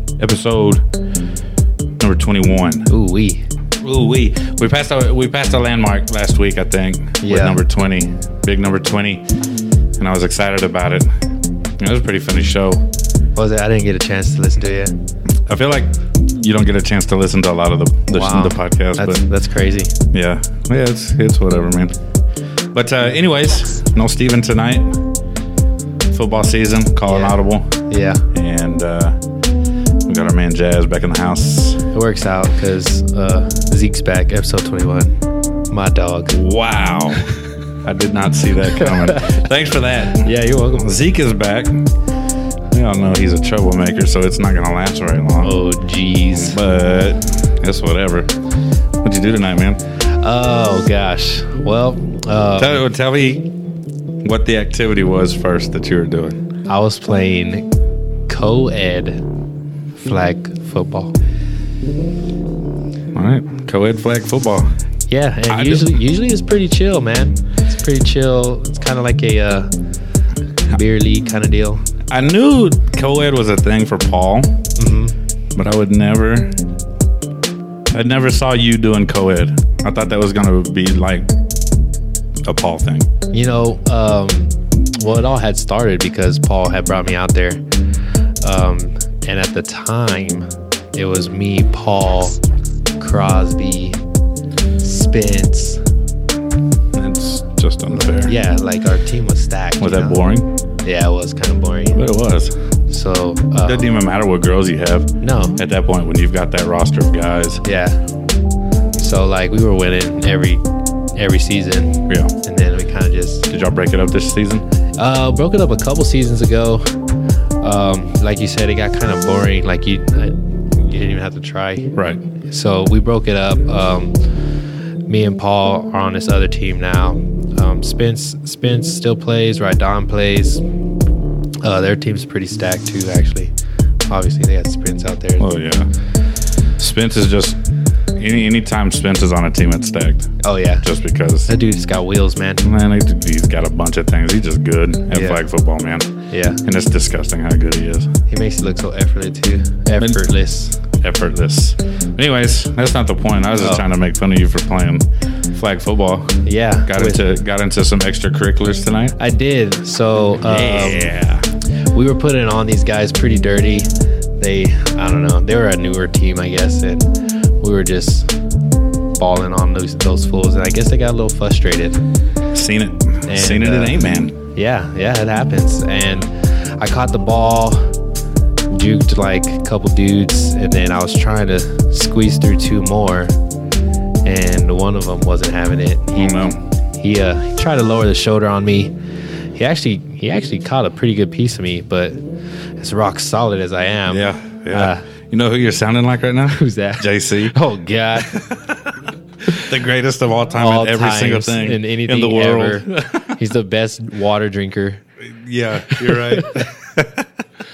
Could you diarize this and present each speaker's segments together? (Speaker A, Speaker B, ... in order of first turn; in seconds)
Speaker A: 0.2-0.9, 2.0-2.9, 3.8-9.3, 10.0-11.1, 11.8-12.8, 15.5-19.2, 20.1-22.0, 22.7-25.0, 26.1-27.8, 28.3-29.2, 30.1-31.9, 36.3-41.9, 42.7-45.5, 46.3-48.3, 49.0-49.8, 52.6-53.5, 54.2-56.4, 63.1-64.7, 65.5-66.0, 72.1-74.6, 75.5-76.6, 77.9-81.3, 82.5-83.1, 96.9-98.4, 99.8-100.5, 101.9-102.5, 103.6-107.6, 112.1-112.3, 113.5-114.7, 122.0-122.2, 135.4-135.9, 136.8-137.6, 138.2-141.5, 142.6-148.1, 150.0-150.2, 150.9-159.2, 160.4-161.5, 172.5-174.3, 186.2-186.6, 194.1-197.6, 198.3-203.4, 205.2-207.3
Speaker B: 2.9-3.5, 7.2-7.6, 13.3-15.0, 18.1-19.9, 27.1-28.3, 31.9-35.2, 35.7-36.4, 38.7-39.4, 40.2-40.9, 45.4-46.6, 50.0-52.8, 56.7-57.7, 58.3-59.3, 60.0-61.1, 65.1-69.7, 70.7-71.9, 74.8-75.2, 83.3-87.6, 88.4-92.4, 93.0-94.0, 94.8-95.8, 98.2-100.3, 100.8-102.0, 102.9-103.9, 105.2-105.6, 107.6-108.1, 109.0-110.6, 111.2-113.5, 115.0-116.9, 117.6-124.5, 125.1-130.6, 131.6-133.5, 134.1-135.5, 140.4-140.9, 141.5-142.7, 145.1-145.4, 146.3-146.6, 148.3-150.8, 156.4-157.4, 159.2-161.0, 161.8-168.3, 169.2-172.0, 173.3-177.9, 178.7-183.3, 184.2-188.9, 189.5-192.2, 192.8-195.1, 196.6-198.5, 200.6-205.0, 205.8-206.7